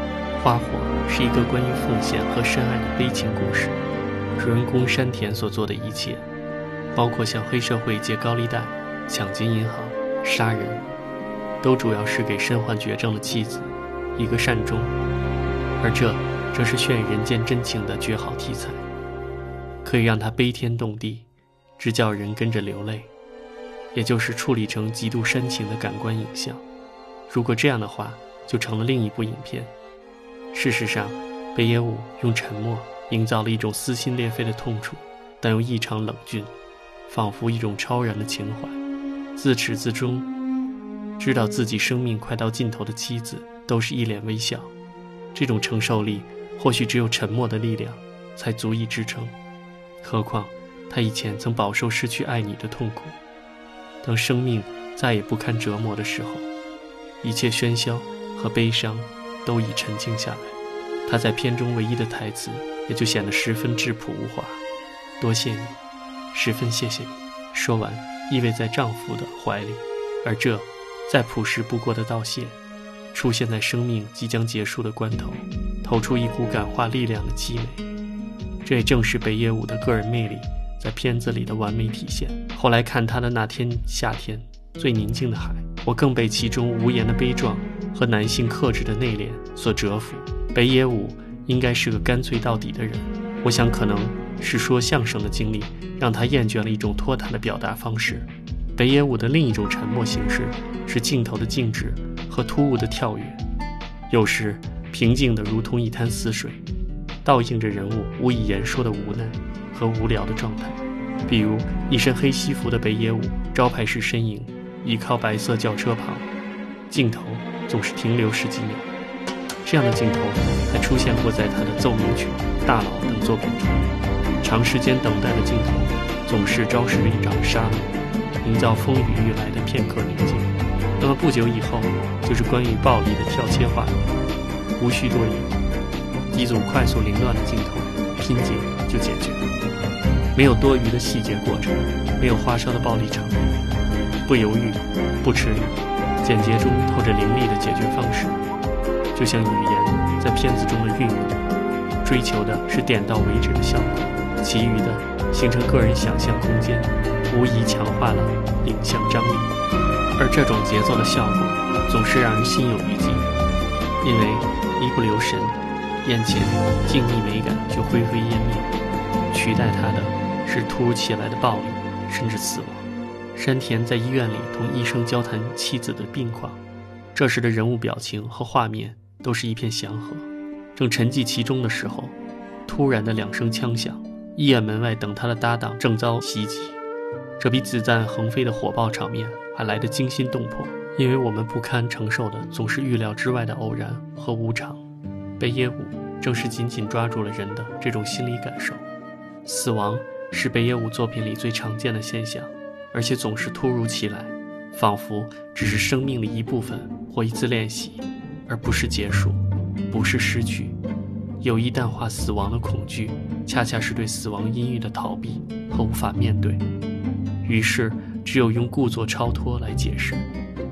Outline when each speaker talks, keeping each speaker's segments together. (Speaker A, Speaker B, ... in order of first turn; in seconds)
Speaker A: 0.4-3.8, 4.4-6.2, 6.9-10.8, 11.6-14.9, 15.8-18.9, 19.8-23.1, 23.9-26.6, 27.3-29.7, 30.5-36.5, 37.1-38.8, 39.4-40.3, 41.2-44.7, 45.3-49.4, 50.0-53.2, 54.0-56.5, 57.2-64.6, 65.2-65.8, 66.3-72.6, 73.1-77.8, 78.6-103.4, 104.1-106.6, 107.2-116.3, 116.9-118.9, 119.6-127.9, 128.4-134.0, 134.8-135.5, 136.3-139.5, 140.3-143.4, 144.2-148.4, 149.1-151.4, 152.0-159.5, 160.2-163.3, 164.0-168.7, 169.3-176.6, 177.1-186.8, 187.4-194.8, 195.4-198.9, 199.4-210.8, 211.4-216.6, 217.4-220.3